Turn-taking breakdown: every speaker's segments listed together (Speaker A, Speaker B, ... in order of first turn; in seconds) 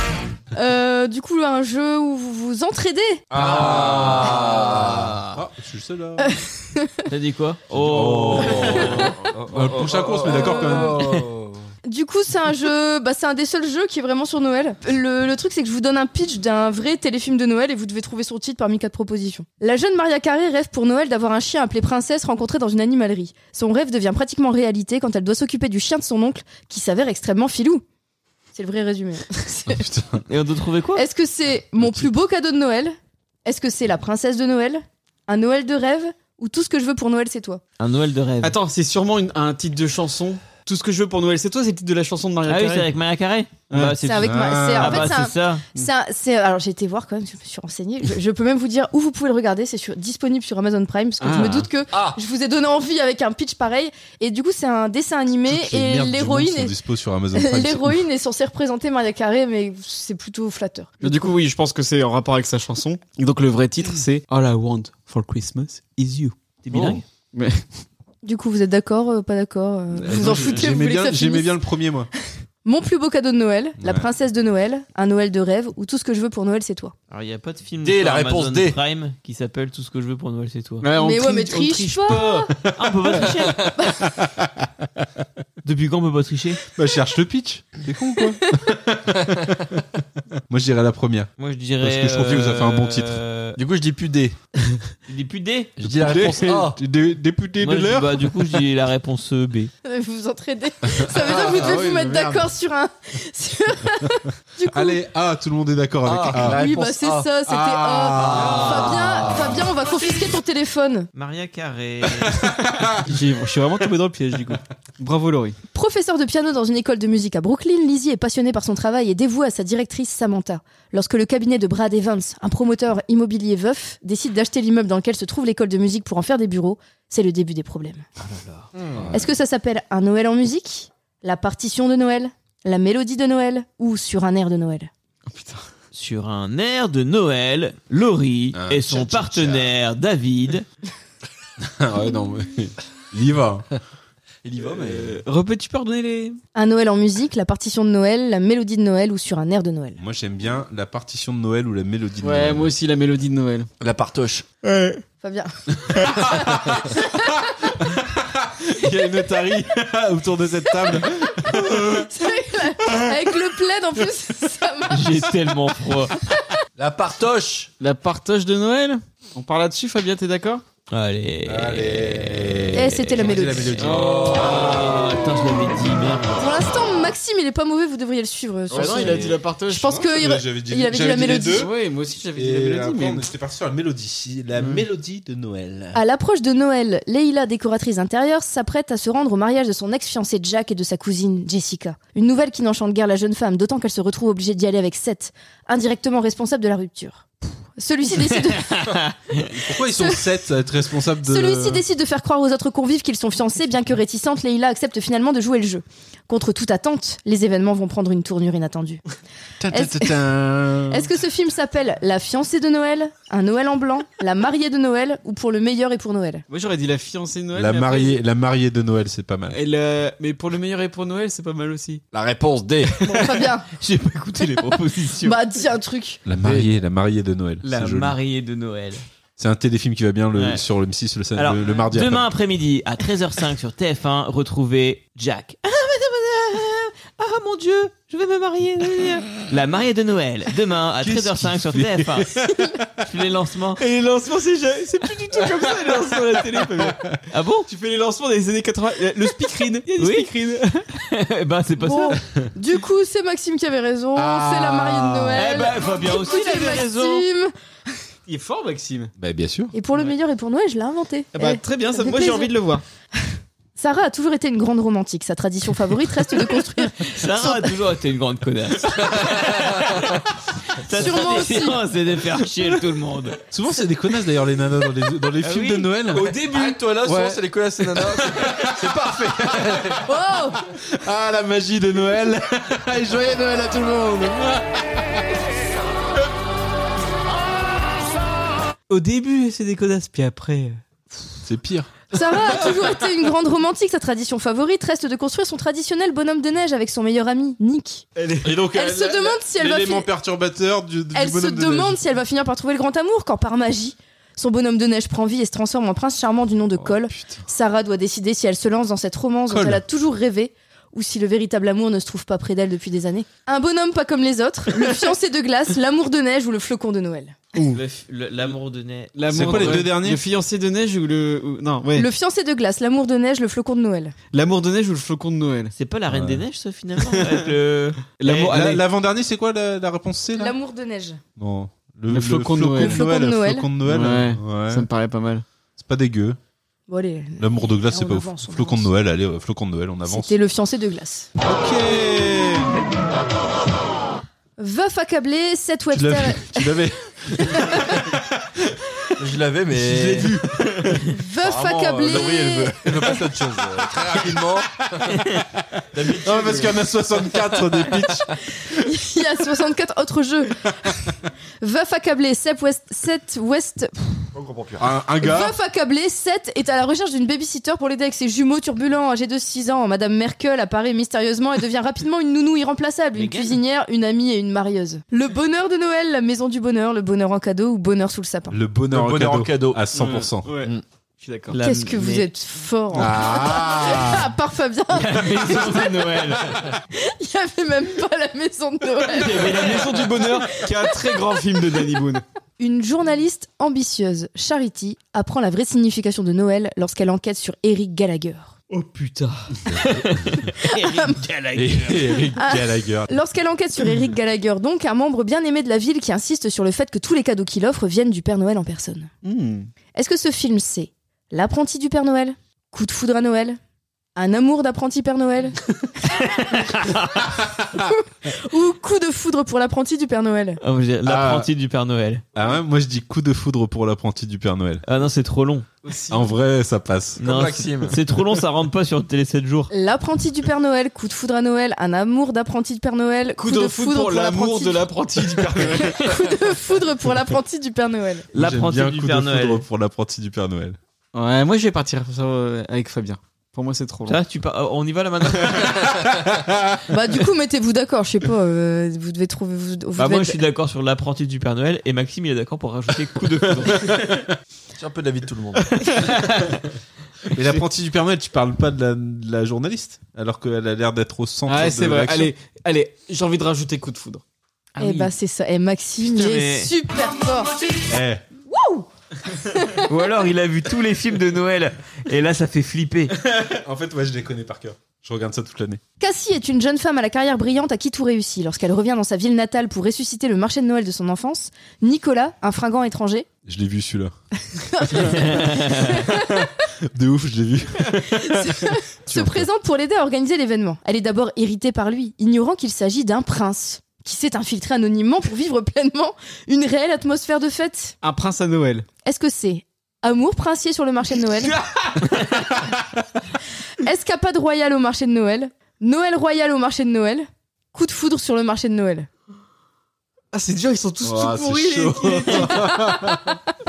Speaker A: 0.5-3.2, 6.2-6.9, 10.3-10.9, 11.8-27.8, 28.5-29.8, 30.9-32.9, 33.5-37.6, 44.0-56.7, 57.3-61.3, 68.2-71.6, 72.6-76.9, 81.0-82.5, 99.8-105.0, 106.4-111.1, 115.7-128.0, 129.1-134.9, 146.5-150.0, 155.2-156.2, 156.9-157.3, 161.4-165.1, 172.7-173.8, 176.4-181.7, 185.9-199.0, 201.2-209.0, 209.7-210.2, 210.9-216.4, 223.1-223.7, 225.2-226.2, 251.8-257.5, 259.7-262.5, 263.8-267.7, 270.8-271.8, 280.1-280.6, 292.1-298.0, 298.7-300.1, 301.1-317.4, 321.9-324.1, 330.3-331.2, 332.8-333.7, 336.9-338.9, 340.1-341.3, 344.6-346.6, 347.5-348.0, 351.1-353.1, 358.7-360.7, 361.6-364.3, 365.2-378.6, 381.6-386.2, 386.9-389.7, 392.6-398.5, 400.6-401.2, 402.4-409.1, 409.9-413.6, 414.1-415.6, 417.7-420.6, 429.7-434.9, 435.7-438.2, 446.9-450.4, 464.8-467.6, 468.5-468.9, 469.5-469.8, 476.0-483.3, 484.7-486.5, 488.2-497.9, 499.0-501.5, 503.8-509.1
Speaker B: 3.3-5.2, 7.9-11.6, 51.9-52.2, 77.8-78.8, 93.5-94.4, 95.8-96.8, 106.0-107.3, 108.2-109.3, 144.4-145.2, 153.8-154.4, 166.8-167.7, 173.8-175.0, 222.1-223.1, 226.4-226.7, 269.1-270.2, 276.4-280.0, 349.2-350.4, 351.4-355.3, 355.9-357.3, 364.3-364.9, 378.9-379.8, 427.2-428.0, 454.8-456.0
Speaker C: 3.3-4.4, 5.3-6.3, 7.7-11.0, 29.7-30.2, 31.8-32.1, 44.2-45.1, 55.5-58.0, 70.0-72.1, 83.3-84.5, 86.8-89.8, 90.5-93.2, 95.8-98.3, 100.9-102.5, 104.7-106.7, 107.5-109.5, 112.2-113.0, 128.9-129.2, 138.5-139.7, 141.6-143.7, 150.0-152.7, 155.9-162.1, 171.4-174.4, 178.8-179.3, 179.8-181.7, 182.3-186.0, 199.5-201.8, 209.6-211.1, 217.5-219.6, 226.2-228.2, 229.4-232.3, 241.0-241.4, 242.0-242.8, 246.9-247.2, 254.2-255.3, 259.2-259.7, 273.5-276.4, 278.1-278.8, 279.4-280.0, 280.6-285.0, 291.4-291.9, 298.4-302.0, 306.8-307.4, 309.5-309.8, 319.3-320.2, 326.1-326.4, 328.5-330.5, 331.4-334.9, 335.8-336.4, 337.4-340.3, 341.4-342.8, 345.9-348.2, 349.7-351.1, 356.2-358.3, 364.8-365.5, 378.5-380.5, 382.9-384.3, 399.7-400.4, 401.5-403.1, 421.0-421.5, 422.3-424.8, 426.1-427.2, 438.3-440.8, 446.5-446.8, 453.9-454.2, 457.3-462.3, 467.9-468.2, 473.4-475.8, 483.4-484.1, 484.8-489.5, 511.0-513.4
Speaker D: 4.4-5.3, 7.1-9.1, 30.3-31.0, 37.8-38.5, 42.5-45.6, 66.6-67.0, 70.1-70.6, 77.1-80.9, 82.8-83.7, 85.6-86.6, 91.4-93.6, 95.1-95.7, 97.6-99.7, 111.1-112.5, 128.2-128.7, 135.9-140.7, 164.9-166.1, 170.9-176.4, 198.7-199.3, 223.7-225.4, 227.6-229.0, 230.3-230.6, 231.3-242.3, 243.0-243.8, 247.3-247.7, 250.0-250.3, 251.1-252.2, 255.3-257.2, 267.1-270.2, 270.8-273.4, 275.4-275.9, 317.6-319.9, 325.7-328.6, 373.1-373.6, 381.5-382.2, 384.9-386.7, 399.7-402.3, 416.2-417.2, 420.6-422.2, 424.9-425.7, 427.2-429.7, 438.3-439.6, 444.1-446.0, 450.0-454.2, 464.8-465.1, 466.0-466.7, 469.9-473.1
Speaker E: 38.4-42.9, 43.7-44.0, 51.2-51.7, 61.0-67.7, 80.8-82.5, 113.0-115.6, 135.3-135.7, 144.6-146.4, 152.2-153.7, 154.6-155.0, 167.8-170.6, 178.7-179.9, 181.3-183.2, 184.6-184.8, 216.5-218.2, 219.5-222.0, 243.8-247.0, 247.7-250.9, 258.3-259.1, 261.3-262.8, 276.1-277.4, 288.9-291.3, 298.2-298.6, 317.5-317.8, 319.1-322.1, 324.3-325.7, 327.0-327.5, 328.2-328.8, 332.1-333.0, 333.8-335.4, 379.9-381.6, 389.1-392.2, 398.7-399.5, 409.2-409.7, 425.8-426.3, 433.4-436.1, 441.1-444.2, 461.5-464.2, 498.0-498.9, 510.3-513.1